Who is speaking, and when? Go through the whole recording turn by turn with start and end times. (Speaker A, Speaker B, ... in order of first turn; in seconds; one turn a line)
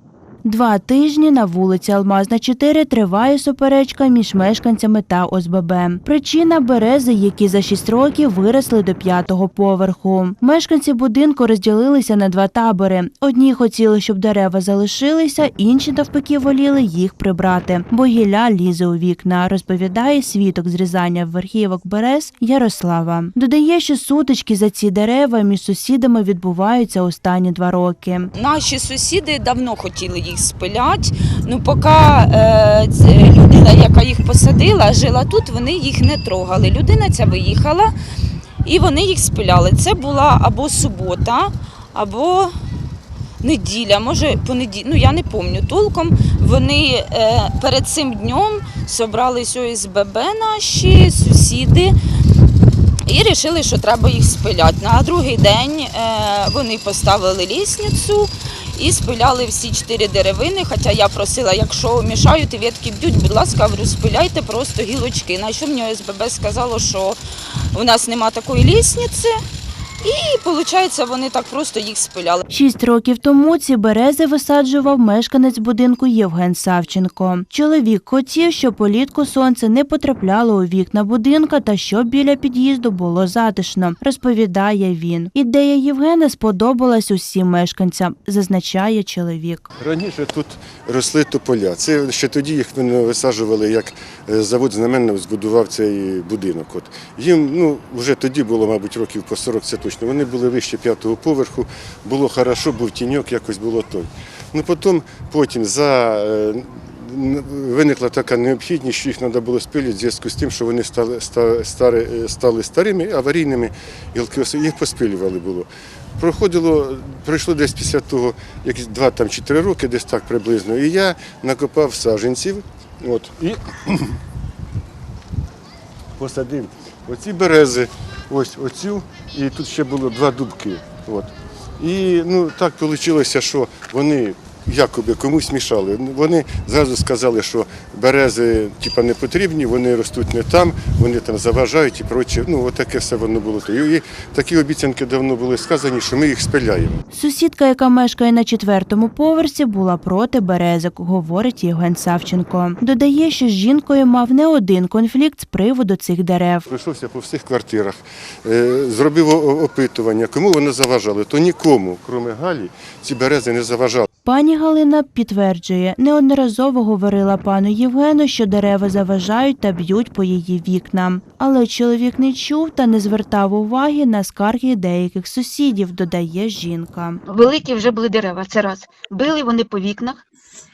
Speaker A: 0.4-28.3
Speaker B: 28.3-37.9
Speaker B: 38.6-42.5
Speaker B: 43.4-51.9
Speaker B: 53.1-67.2
Speaker B: 67.7-69.4
Speaker B: 70.0-72.4
Speaker A: 72.5-89.7
Speaker C: 89.8-124.1
Speaker C: 126.2-147.0
Speaker A: 147.1-156.7
Speaker C: 156.7-164.0
Speaker A: 164.2-177.2
Speaker D: 177.3-180.2